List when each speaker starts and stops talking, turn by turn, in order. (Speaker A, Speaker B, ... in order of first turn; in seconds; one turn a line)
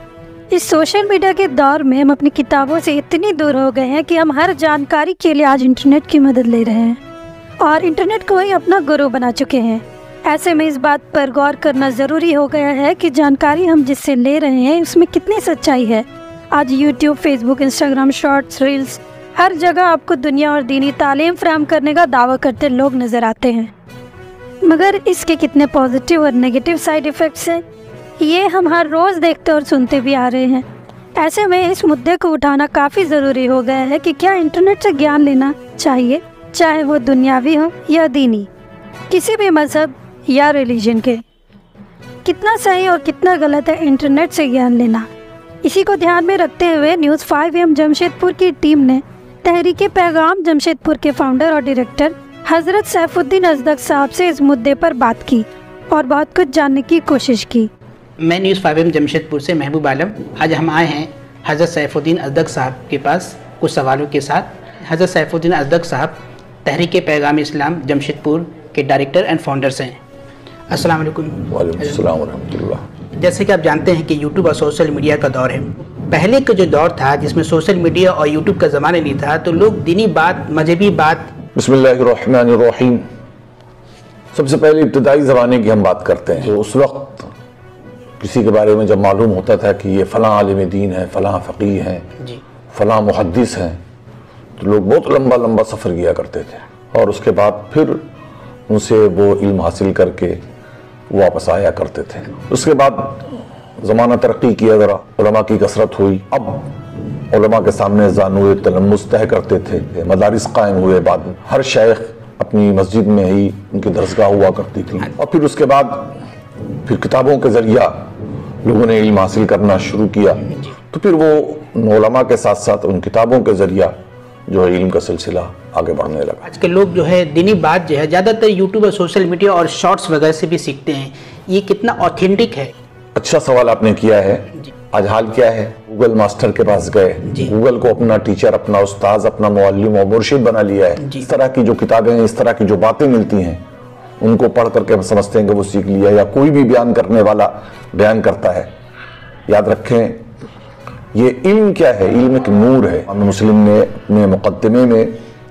Speaker A: 0.5-7.0
Speaker A: 7.6-23.7
Speaker A: 24.6-27.6
Speaker A: 28.2-30.6
Speaker A: 31.1-38.5
Speaker A: 39.1-41.2
Speaker A: 42.2-45.1
Speaker A: 45.6-57.7
Speaker B: 58.2-70.0
Speaker B: 70.7-72.0
Speaker C: 71.5-72.8
Speaker B: 73.1-81.3
Speaker C: 81.5-83.0
Speaker C: 84.3-87.3
Speaker C: 88.2-92.0
Speaker C: 92.7-93.8
Speaker C: 94.6-98.1
Speaker C: 98.7-100.4
Speaker C: 101.1-106.8
Speaker C: 107.3-116.2
Speaker C: 116.8-123.9
Speaker C: 124.5-126.5
Speaker B: 126.5-132.7
Speaker C: 133.1-143.6
Speaker B: 141.0-141.3
Speaker C: 144.2-148.7
Speaker C: 149.5-150.2
Speaker C: 151.1-155.1